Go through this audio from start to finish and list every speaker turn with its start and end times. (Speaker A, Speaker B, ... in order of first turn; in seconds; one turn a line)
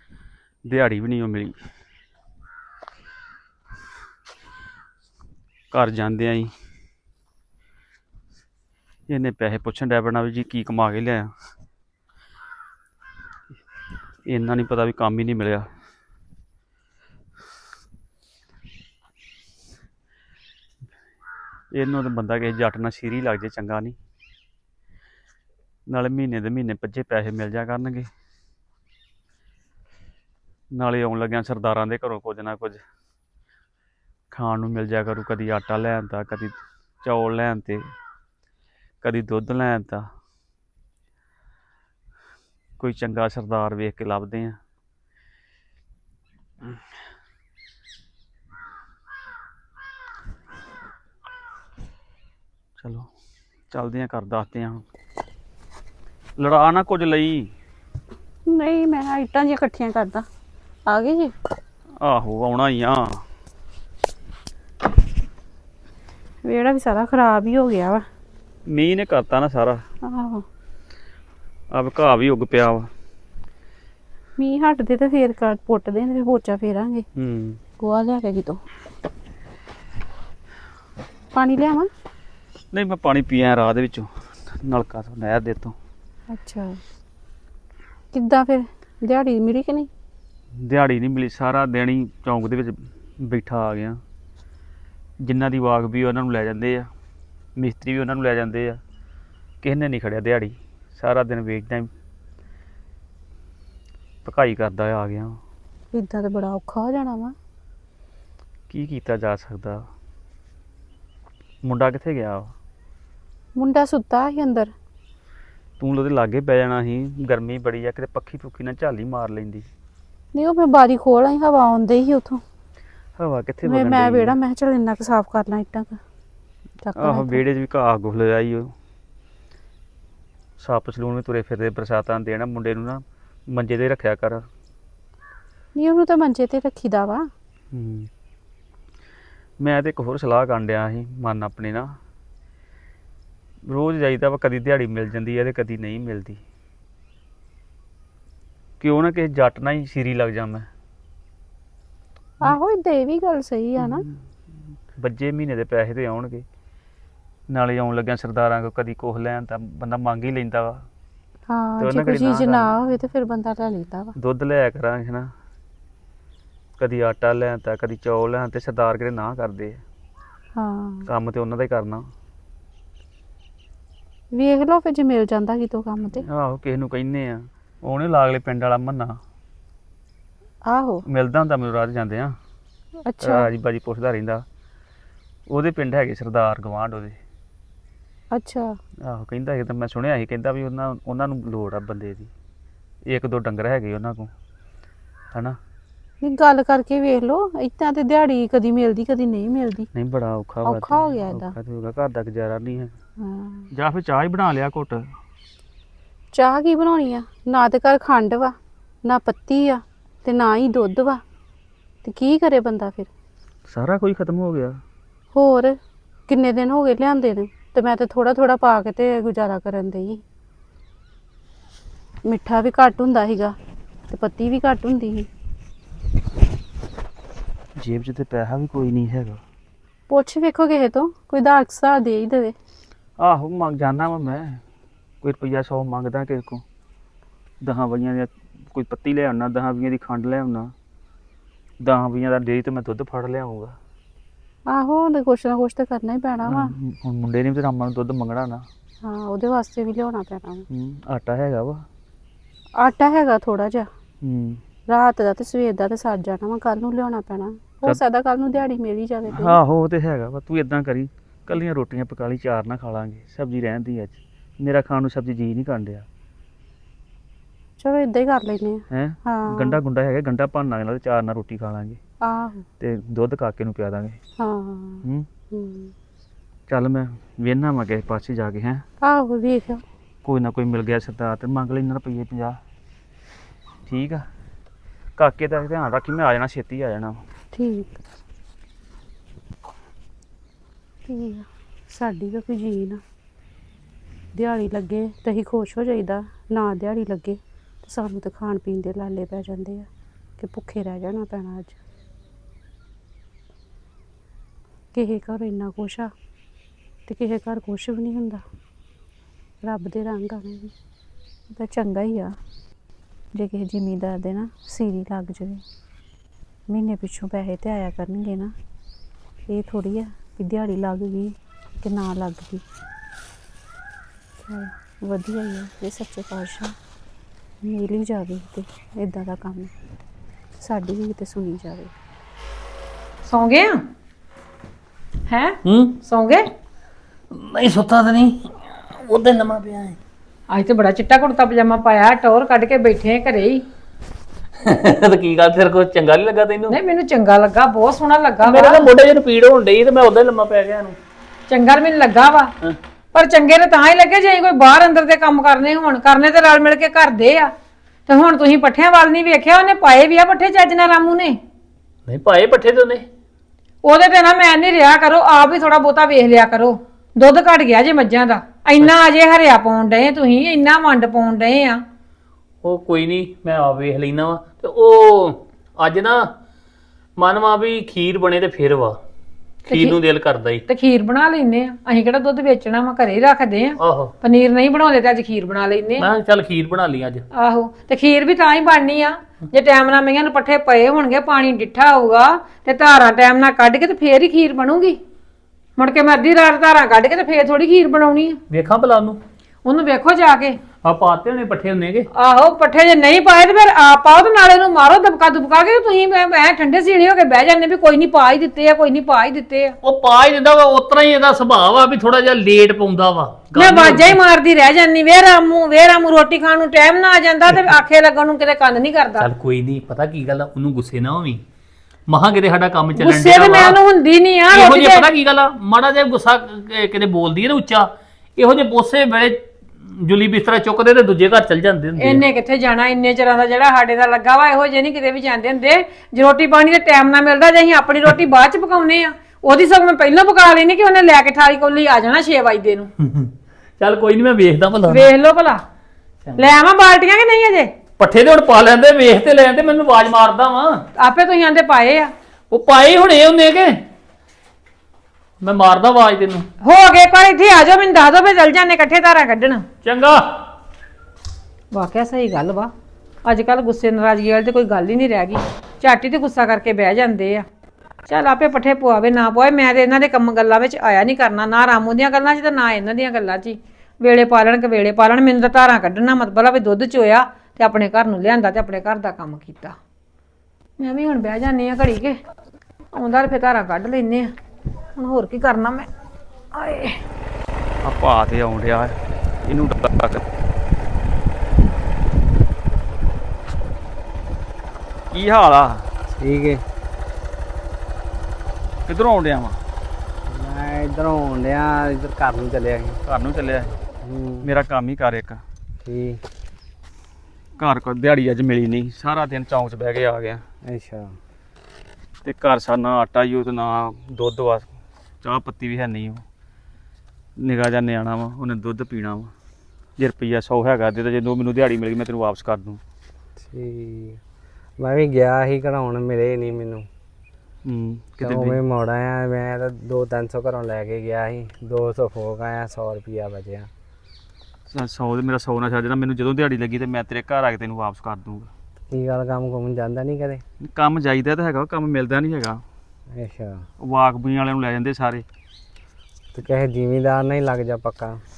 Speaker A: 0.7-1.6
Speaker A: 5.7-6.5
Speaker A: 9.1-11.3
Speaker A: 14.3-15.7
Speaker A: 21.7-24.0
Speaker A: 25.9-28.1
Speaker A: 30.7-32.8
Speaker A: 34.3-37.8
Speaker A: 39.0-40.1
Speaker A: 42.8-44.6
Speaker A: 52.8-53.1
Speaker A: 53.7-54.9
Speaker A: 56.4-57.5
Speaker B: 58.5-60.3
Speaker B: 60.9-61.3
Speaker A: 62.0-63.2
Speaker B: 66.5-68.0
Speaker A: 68.7-69.8
Speaker B: 70.0-70.5
Speaker A: 71.7-72.9
Speaker B: 74.4-77.1
Speaker A: 77.2-77.6
Speaker B: 77.8-78.6
Speaker B: 81.3-81.9
Speaker A: 82.7-85.8
Speaker B: 86.3-86.8
Speaker B: 88.1-89.9
Speaker A: 90.6-94.0
Speaker A: 95.2-96.9
Speaker A: 97.6-98.8
Speaker A: 99.6-101.9
Speaker A: 104.2-105.4
Speaker B: 105.9-107.4
Speaker A: 108.7-109.8
Speaker A: 111.6-112.5
Speaker B: 113.6-114.7
Speaker A: 115.8-119.7
Speaker B: 120.3-122.4
Speaker A: 123.2-124.4
Speaker B: 123.6-126.0
Speaker B: 126.8-127.4
Speaker A: 127.0-128.7
Speaker A: 130.6-134.4
Speaker B: 135.8-137.3
Speaker A: 137.7-138.1
Speaker A: 139.6-141.9
Speaker A: 143.7-146.4
Speaker A: 148.8-150.7
Speaker B: 152.4-154.0
Speaker A: 155.0-156.4
Speaker A: 157.5-160.9
Speaker B: 161.5-164.2
Speaker A: 161.8-162.7
Speaker A: 164.2-165.3
Speaker A: 166.8-169.8
Speaker B: 170.6-171.1
Speaker A: 171.1-172.1
Speaker B: 174.3-176.2
Speaker A: 176.3-179.2
Speaker B: 180.7-181.0
Speaker A: 181.1-182.4
Speaker B: 183.1-183.5
Speaker A: 183.2-184.4
Speaker A: 185.5-187.2
Speaker B: 188.3-188.8
Speaker A: 189.1-192.3
Speaker A: 193.1-194.3
Speaker B: 196.2-199.9
Speaker A: 199.9-202.9
Speaker B: 200.6-201.5
Speaker B: 203.2-203.7
Speaker A: 203.7-205.0
Speaker B: 206.3-211.2
Speaker B: 212.1-213.1
Speaker A: 213.7-214.8
Speaker B: 215.3-215.8
Speaker B: 216.3-220.2
Speaker B: 222.3-223.6
Speaker B: 224.1-225.3
Speaker A: 227.8-229.4
Speaker B: 230.1-232.6
Speaker A: 233.2-234.6
Speaker A: 235.2-236.6
Speaker A: 237.6-240.7
Speaker A: 241.8-243.8
Speaker B: 244.7-246.7
Speaker A: 246.5-248.7
Speaker B: 249.0-250.7
Speaker A: 250.7-251.8
Speaker B: 252.8-253.9
Speaker A: 254.2-254.6
Speaker B: 254.9-259.6
Speaker A: 259.3-266.1
Speaker B: 267.8-269.8
Speaker A: 268.9-272.0
Speaker B: 272.2-272.7
Speaker A: 272.8-274.2
Speaker B: 274.4-275.9
Speaker A: 276.7-278.8
Speaker B: 279.0-279.8
Speaker A: 280.2-282.6
Speaker A: 283.9-284.2
Speaker A: 285.2-287.2
Speaker B: 287.5-288.0
Speaker B: 291.1-293.0
Speaker B: 294.4-299.9
Speaker B: 300.4-301.8
Speaker B: 304.9-306.1
Speaker B: 307.1-308.4
Speaker B: 309.6-310.7
Speaker B: 311.5-312.4
Speaker B: 313.4-315.6
Speaker B: 316.7-318.5
Speaker B: 319.5-322.6
Speaker B: 324.4-326.8
Speaker B: 327.6-329.7
Speaker B: 330.6-331.9
Speaker C: 333.3-333.8
Speaker C: 335.3-336.5
Speaker D: 335.6-336.0
Speaker D: 337.3-340.0
Speaker C: 340.5-343.6
Speaker D: 344.6-346.8
Speaker C: 346.7-348.9
Speaker D: 348.4-351.0
Speaker C: 351.5-352.5
Speaker C: 353.1-357.5
Speaker C: 358.1-361.4
Speaker D: 362.1-363.1
Speaker C: 363.8-371.8
Speaker D: 372.6-376.3
Speaker D: 377.2-379.0
Speaker D: 379.7-380.6
Speaker C: 379.7-380.0
Speaker C: 380.7-386.1
Speaker D: 383.8-384.1
Speaker D: 386.0-387.2
Speaker C: 387.3-395.0
Speaker C: 395.8-398.4
Speaker D: 398.5-399.2
Speaker C: 399.6-400.6
Speaker D: 400.8-402.1
Speaker C: 402.1-409.8
Speaker D: 409.8-414.2
Speaker C: 413.6-419.3
Speaker D: 419.2-421.4
Speaker D: 422.1-423.8
Speaker C: 423.0-425.1
Speaker D: 424.5-432.2
Speaker C: 432.0-442.9
Speaker D: 443.0-445.1
Speaker C: 444.9-445.6
Speaker D: 446.2-446.5
Speaker C: 446.4-447.7
Speaker D: 448.0-450.8
Speaker C: 451.0-452.1
Speaker D: 452.5-453.8
Speaker D: 455.4-456.5
Speaker C: 456.6-459.6
Speaker D: 459.8-460.2
Speaker C: 461.7-462.7
Speaker C: 463.2-467.5
Speaker C: 468.1-479.8
Speaker C: 480.8-482.2
Speaker C: 482.9-484.3
Speaker C: 485.0-485.9
Speaker C: 486.5-487.0
Speaker A: 487.8-490.2
Speaker A: 495.1-495.9
Speaker E: 496.2-496.6
Speaker A: 498.9-499.6
Speaker E: 500.3-503.0
Speaker A: 503.1-503.8
Speaker E: 504.0-504.5
Speaker A: 504.4-505.4
Speaker E: 505.8-506.2
Speaker A: 507.6-510.4
Speaker E: 510.6-511.2
Speaker A: 512.2-514.7
Speaker A: 515.2-516.2
Speaker A: 517.4-519.3
Speaker A: 520.0-522.8
Speaker E: 523.4-524.2
Speaker E: 524.8-526.9
Speaker A: 527.6-528.6
Speaker E: 528.2-533.7
Speaker A: 534.7-538.5
Speaker E: 538.9-540.4
Speaker A: 540.6-542.6
Speaker E: 543.1-543.6
Speaker A: 543.8-545.2
Speaker E: 546.3-548.2